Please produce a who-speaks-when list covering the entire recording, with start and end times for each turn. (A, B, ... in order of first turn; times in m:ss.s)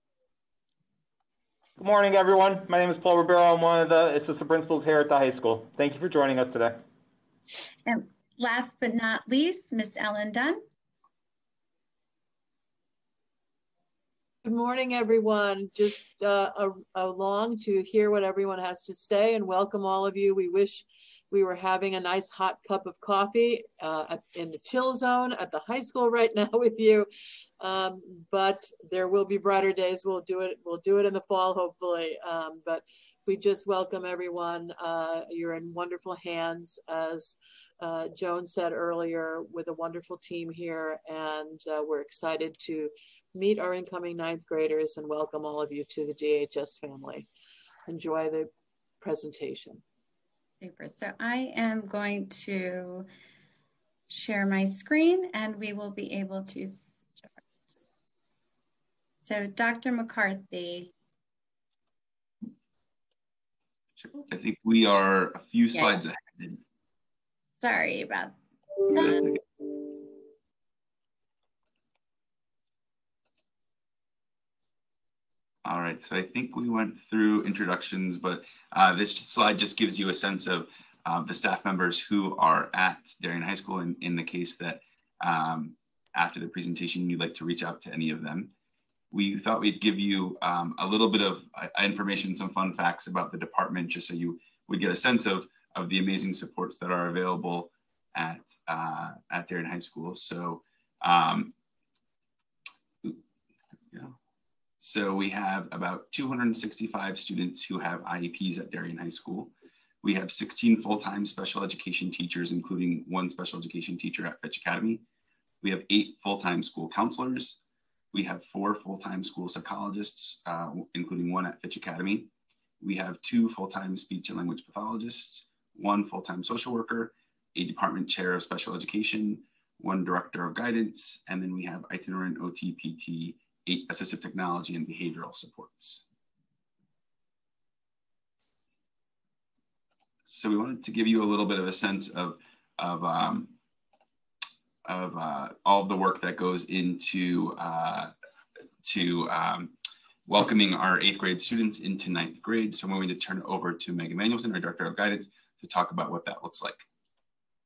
0:01.8-0:06.8 A
0:07.8-0:10.6 B
0:14.4-0:27.1 C
0:27.6-0:47.3 C
0:47.9-0:48.5 C
0:49.0-0:49.8 C
0:50.6-0:53.1 B
0:54.1-0:57.3 B
0:59.2-1:00.9 B
1:04.0-1:06.6 D
1:05.7-1:06.0 B
1:07.6-1:09.3 B
1:08.9-1:09.4 D
1:15.6-1:28.5 D
1:29.1-1:41.5 D
1:44.8-1:49.5 D
1:50.0-1:55.0 D
1:55.6-1:57.6 D
1:58.1-2:02.3 D
2:02.8-2:16.0 D
2:20.3-2:23.5 D
2:24.8-2:28.1 D
2:28.8-2:29.7 D
2:30.2-2:36.8 D